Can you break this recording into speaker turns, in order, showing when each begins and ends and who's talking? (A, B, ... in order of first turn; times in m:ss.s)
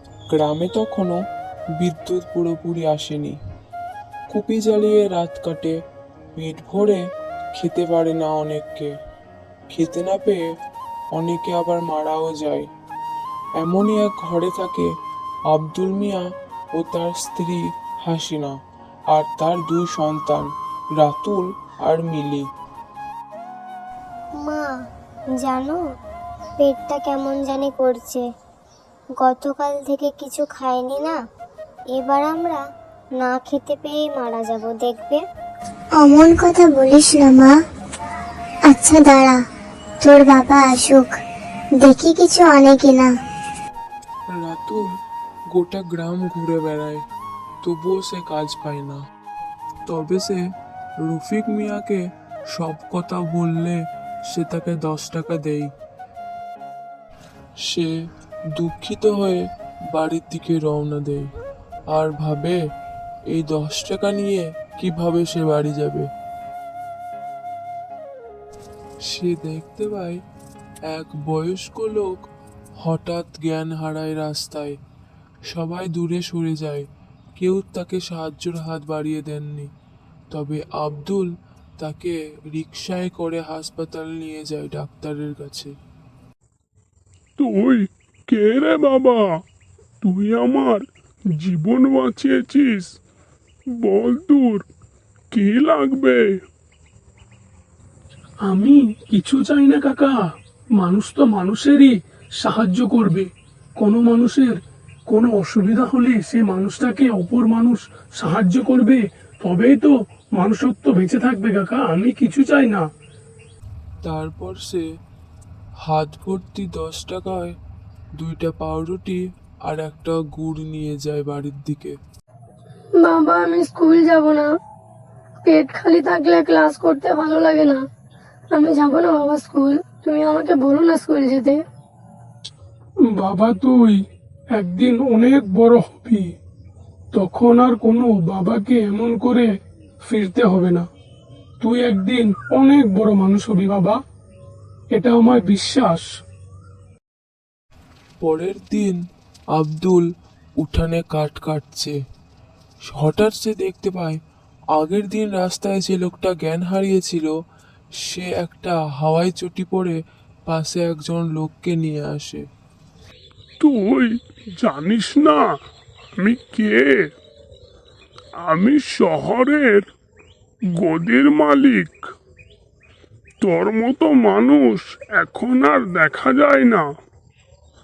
0:00.3-0:01.2 A
0:01.8-0:03.4 A
0:04.3-0:05.7 A
0:06.3-0:07.0 A
0:07.5-0:08.9 A
0:09.7-0:10.4 A
0:11.1-0:12.7 A
0:13.6-0:14.9 A
0:15.5-0:16.2 A
0:16.8-0:18.5 A
0:19.1-0:22.4 A
0:24.4-0:24.7 B
0:25.4-0:25.8 B
0:26.6-0:28.2 B
0:29.2-0:31.2 B
0:31.9-0:32.6 B
0:33.2-0:35.2 B
0:36.0-0:37.5 C
0:38.7-0:39.4 C
0:40.0-0:41.1 C
0:41.8-0:43.1 C
0:44.3-0:44.8 A
0:45.5-0:47.0 A
0:47.6-0:49.0 A
0:49.8-0:50.4 A
0:51.0-0:52.0 A
0:52.5-0:53.8 A
0:54.3-0:55.7 A
0:57.6-0:57.9 A
0:58.6-0:59.4 A
0:59.9-1:01.3 A
1:01.9-1:02.6 A
1:03.3-1:06.1 A
1:09.0-1:10.2 A
1:10.9-1:12.2 A
1:12.8-1:14.8 A
1:15.5-1:16.8 A
1:17.4-1:19.7 A
1:20.3-1:25.7 A
1:27.4-1:29.2 D
1:30.0-1:30.8 D
1:31.4-1:32.9 D
1:33.8-1:34.6 D
1:35.3-1:36.2 D
1:38.4-1:40.2 E
1:40.8-1:44.5 E
1:45.1-1:52.8 E
1:54.0-1:54.8 A
1:55.8-1:57.6 A
1:58.2-2:02.0 A
2:02.9-2:04.5 F
2:05.4-2:07.8 F
2:08.5-2:11.6 F
2:13.1-2:14.0 E
2:14.6-2:16.3 E
2:17.1-2:19.5 E
2:20.0-2:20.8 E
2:21.6-2:24.0 E
2:24.9-2:26.1 E
2:28.2-2:29.0 A
2:29.6-2:30.0 A
2:30.6-2:32.0 A
2:32.8-2:34.2 A
2:34.7-2:37.3 A
2:38.0-2:40.0 A
2:40.5-2:42.4 A
2:43.6-2:45.4 D
2:46.2-2:46.9 D
2:48.4-2:49.8 D
2:50.8-2:52.0 D
2:53.4-2:56.8 D